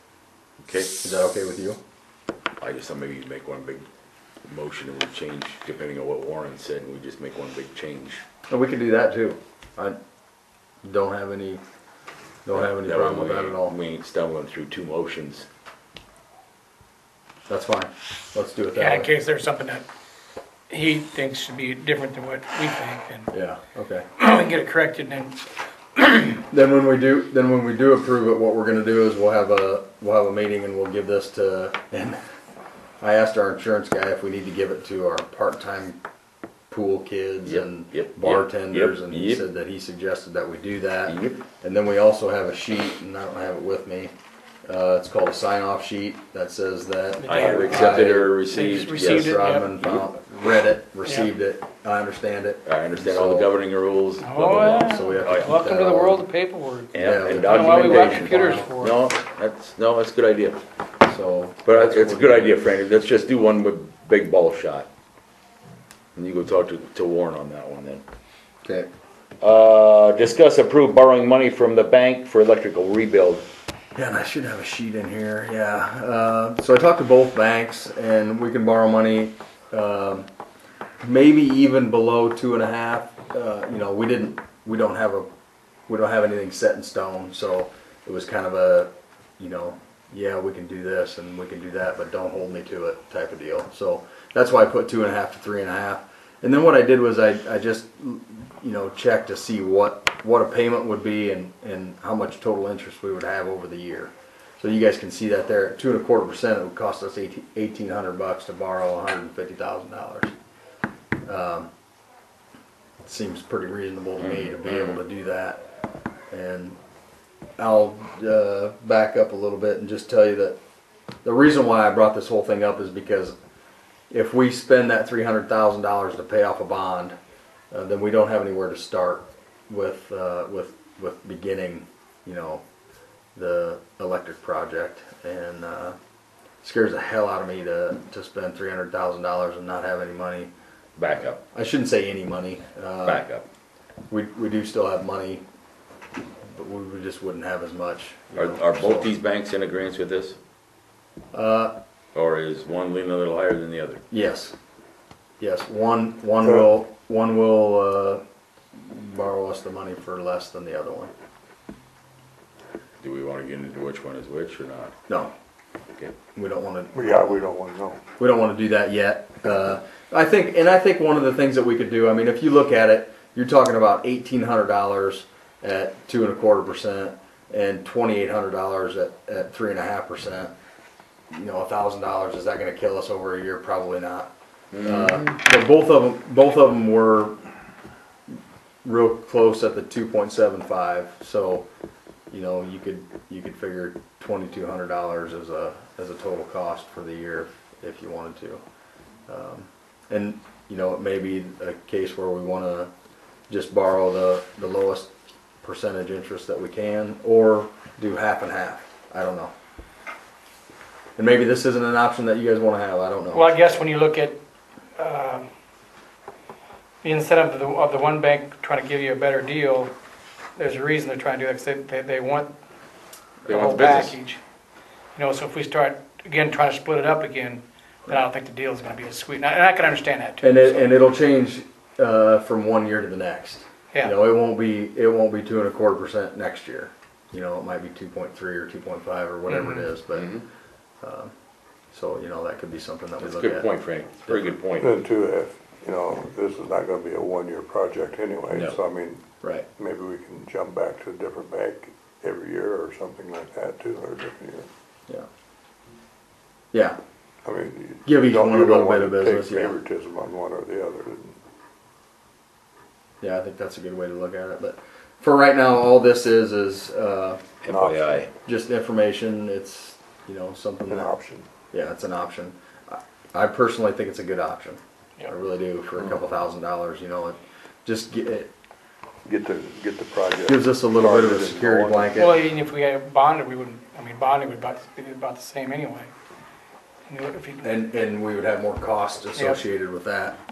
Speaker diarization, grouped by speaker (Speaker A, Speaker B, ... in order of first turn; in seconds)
Speaker A: 0.6-0.9, 2.6-3.9, 4.5-8.2, 12.5-15.5, 37.5-39.4, 41.1-41.4, 47.2-50.0, 52.7-55.6, 56.9-60.6, 61.6-64.9, 66.2-68.0, 69.4-73.5, 114.2-115.0, 141.0-141.4, 143.0-143.5, 148.4-150.4, 152.1-154.0, 163.0-164.9, 184.7-185.3, 223.5-224.2, 240.1-240.4, 243.2-245.0, 267.6-268.3
Speaker B: 1.0-1.8, 8.5-10.0, 10.8-11.6, 12.4-13.8, 17.5-19.1, 23.3-24.1, 26.5-32.2, 33.0-36.0, 36.7-44.1, 44.7-53.5, 54.8-56.3, 57.0-58.7, 61.0-62.6, 68.6-68.9, 74.0-80.3, 81.0-85.3, 85.9-110.3, 111.3-111.7, 113.1-115.6, 116.3-116.8, 117.6-120.6, 121.2-123.3, 124.1-127.2, 127.7-132.6, 133.4-136.0, 136.6-140.5, 141.5-143.2, 144.1-145.4, 146.5-149.1, 151.3-151.8, 154.1-154.5, 155.4-158.2, 158.8-161.1, 165.1-165.3, 166.3-167.4, 168.2-180.5, 181.3-187.4, 188.8-191.7, 192.3-198.6, 199.3-202.9, 203.5-205.1, 205.6-209.5, 211.2-213.5, 230.4-240.4, 241.0-241.3, 241.9-243.7, 244.2-244.6, 248.5-248.8, 258.1-259.8, 263.2-267.4, 268.5-271.1, 271.7-278.5, 280.5-282.4, 287.6-290.4
Speaker C: 18.8-19.9, 20.7-23.3, 24.2-25.4, 26.0-26.3, 47.2-49.7, 51.0-51.3, 54.2-59.0, 213.3-214.4, 215.0-215.5, 217.0-219.9, 220.6-222.5, 223.5-224.4, 225.2-230.9, 282.2-286.1, 287.1-287.7, 289.4-289.6
Speaker D: 166.9-168.0, 244.8-249.2, 249.8-254.7, 257.4-261.4, 267.7-268.1, 270.9-271.5, 279.2-282.3